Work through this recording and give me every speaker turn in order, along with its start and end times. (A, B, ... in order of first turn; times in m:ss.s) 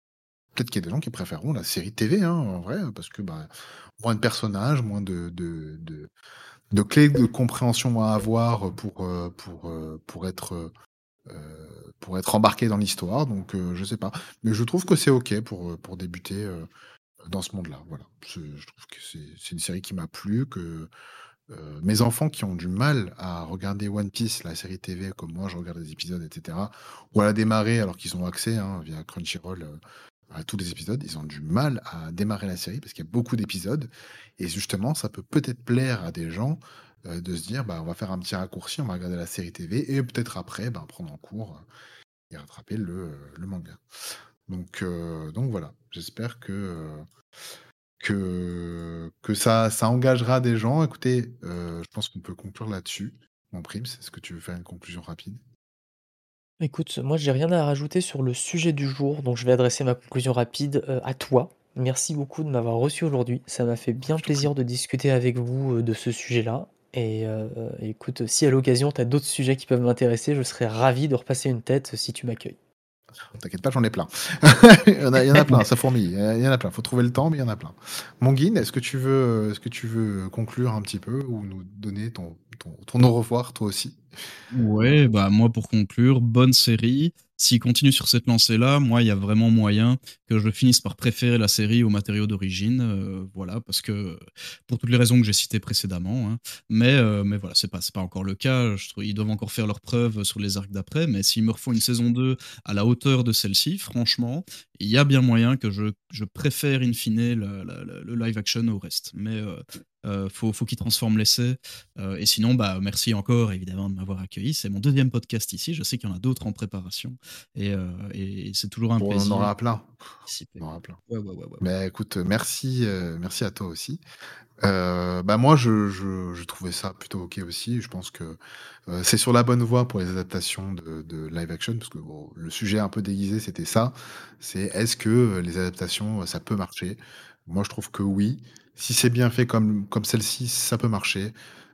0:00.5-0:06.1 A
0:06.7-0:10.7 A
0:11.3-0:16.7 A
0:17.2-0:20.9 A
0:21.5-0:29.8 A
0:30.3-0:41.6 A
0:42.3-0:43.8 A
0:44.5-0:47.0 A
0:48.0-0:55.4 A
0:56.6-1:12.6 B
1:04.2-1:04.5 A
1:13.3-1:24.0 A
1:24.5-1:59.5 C
1:59.0-2:00.0 A
2:00.3-2:01.6 C
2:00.6-2:01.0 A
2:01.6-2:04.0 A
2:04.6-2:21.4 A